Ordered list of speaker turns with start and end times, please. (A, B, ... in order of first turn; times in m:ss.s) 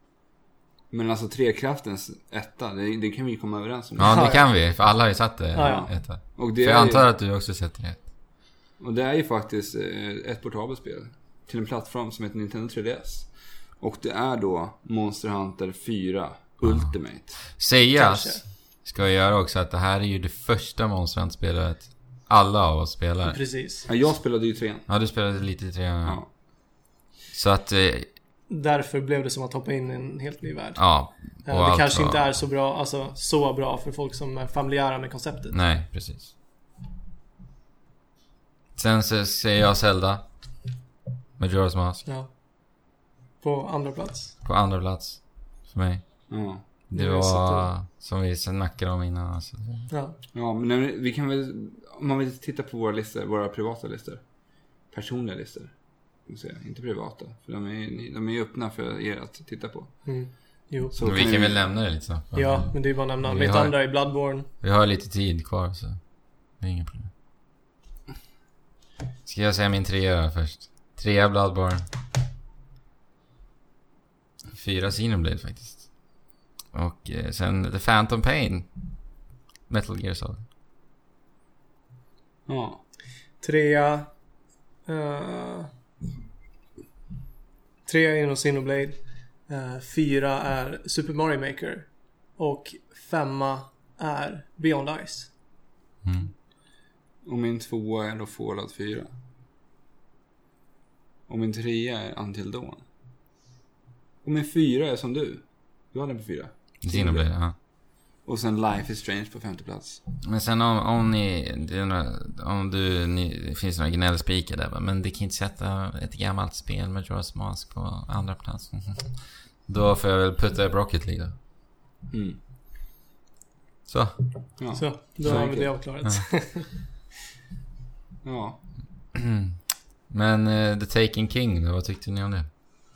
0:00.9-0:04.2 A
0:04.0-0:08.1 B
0:04.0-0:04.5 C
0:05.5-0:05.9 C
0:05.6-0:07.1 A
0:08.8-0:17.5 A
0:16.6-0:23.4 B
0:17.9-0:18.4 C
0:23.3-0:23.9 C
0:23.9-0:24.9 A
0:24.9-0:26.2 B
0:27.3-0:28.1 B
0:28.5-0:35.6 C
0:30.8-0:32.4 B
0:35.5-0:36.3 B
0:38.8-0:40.6 B
0:41.4-0:42.0 B
0:43.4-0:44.3 C
0:44.4-0:49.9 B
0:46.3-0:46.6 A
0:46.9-0:47.7 C
0:49.9-0:50.2 C
0:50.3-0:54.2 A
0:54.9-1:00.2 A
1:00.0-1:01.0 C
1:00.9-1:01.6 A
1:01.0-1:04.0 B
1:02.3-1:04.5 C
1:04.6-1:07.1 B
1:09.2-1:11.9 B
1:14.5-1:16.1 B
1:16.7-1:20.4 B
1:22.5-1:22.8 A
1:23.4-1:24.1 C
1:24.9-1:25.7 C
1:27.9-1:35.3 C
1:36.0-1:36.3 B
1:37.2-1:39.1 A
1:41.3-1:42.8 A
1:44.2-1:47.3 A
1:46.8-1:47.6 B
1:48.2-1:50.0 A
1:50.2-2:01.4 B
2:02.1-2:02.4 A
2:03.9-2:04.7 B
2:04.6-2:05.8 A
2:04.7-2:06.9 C
2:08.2-2:08.6 A
2:09.1-2:12.5 B